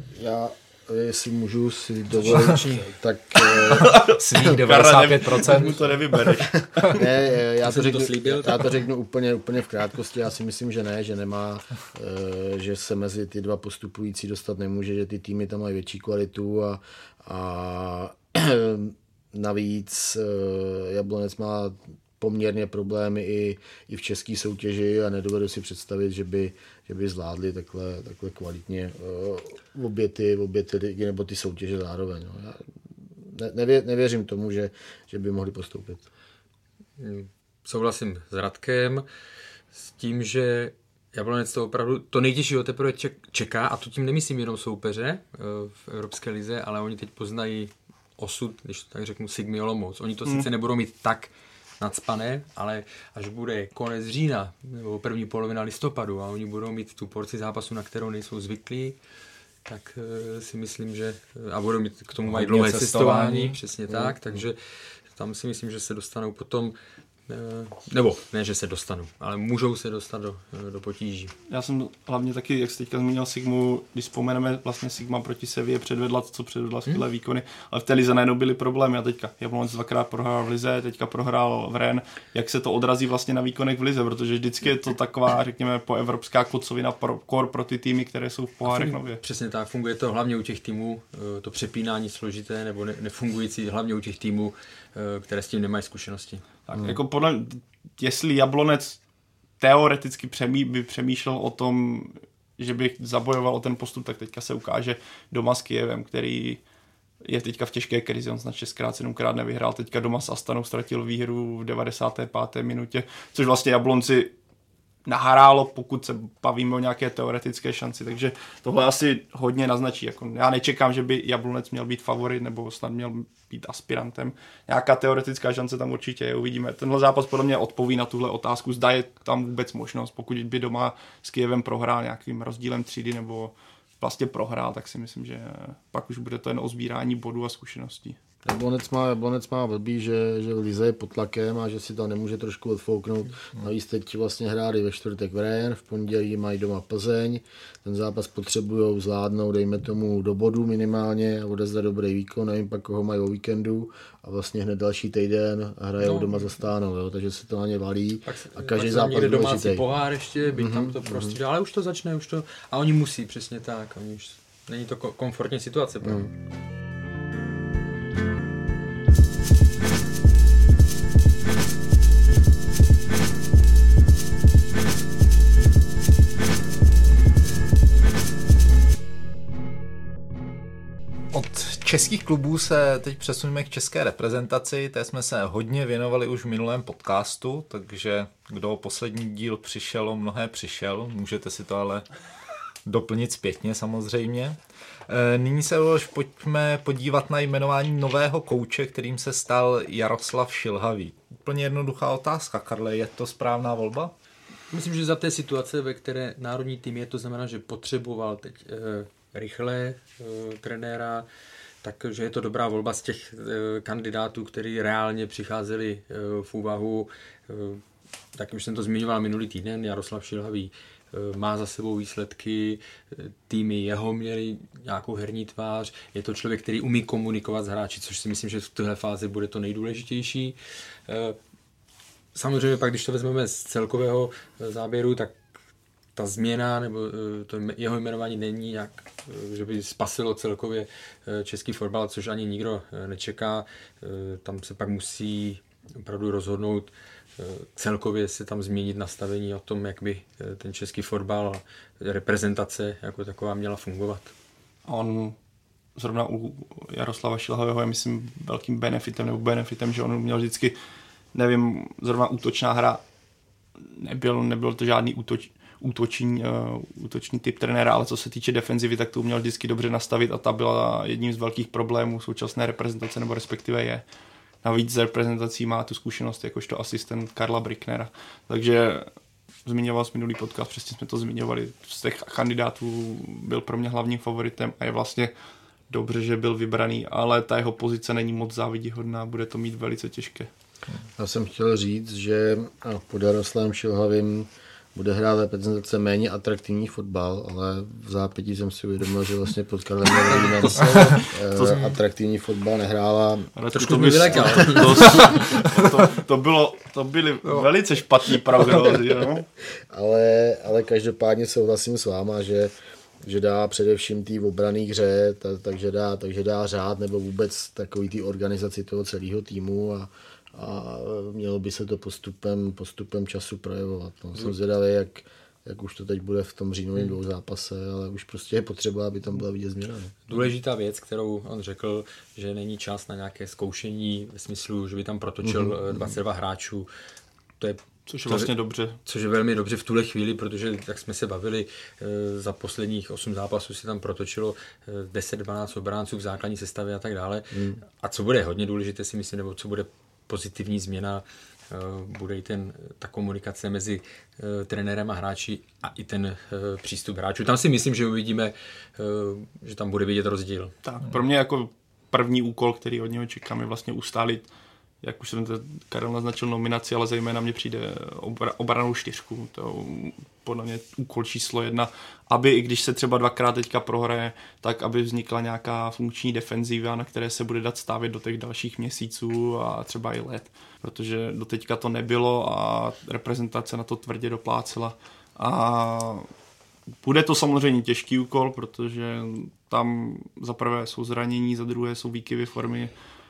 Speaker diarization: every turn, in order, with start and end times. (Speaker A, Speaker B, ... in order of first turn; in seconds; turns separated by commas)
Speaker A: 0.1-4.0, Speaker B: 2.1-2.9, Speaker C: 3.5-7.0, Speaker D: 4.0-6.3, Speaker A: 6.9-32.6, Speaker B: 7.6-8.7, Speaker A: 33.2-36.0, Speaker B: 37.0-39.0, Speaker B: 39.7-59.0, Speaker B: 59.6-64.6, Speaker D: 62.3-63.6, Speaker A: 63.9-64.4, Speaker B: 65.1-66.8, Speaker B: 67.3-71.3, Speaker C: 71.5-89.2, Speaker B: 88.6-96.4, Speaker C: 96.7-99.0, Speaker C: 99.6-106.6, Speaker C: 107.2-114.3, Speaker C: 115.0-138.2, Speaker A: 138.4-159.8, Speaker B: 156.0-156.5, Speaker B: 158.2-166.2, Speaker A: 160.4-161.4, Speaker A: 166.0-166.3, Speaker D: 181.3-192.1, Speaker D: 192.8-204.1, Speaker B: 204.7-211.2, Speaker B: 211.8-217.8, Speaker B: 218.3-230.5, Speaker B: 231.1-231.4, Speaker B: 232.3-235.3, Speaker B: 236.2-254.3, Speaker C: 254.9-255.3, Speaker C: 256.0-260.7, Speaker C: 261.3-263.0, Speaker C: 263.9-274.0, Speaker C: 274.6-279.1, Speaker C: 279.6-285.3, Speaker C: 285.9-290.5, Speaker A: 291.2-303.5, Speaker B: 300.3-301.9, Speaker C: 303.6-309.5, Speaker B: 303.7-305.4, Speaker A: 304.3-305.3, Speaker A: 309.9-330.2, Speaker B: 330.3-336.9, Speaker A: 335.4-336.1, Speaker B: 337.6-338.5, Speaker C: 338.1-339.0, Speaker B: 339.0-360.7, Speaker A: 347.5-347.8, Speaker C: 360.8-364.5, Speaker C: 365.0-386.3, Speaker C: 387.0-392.9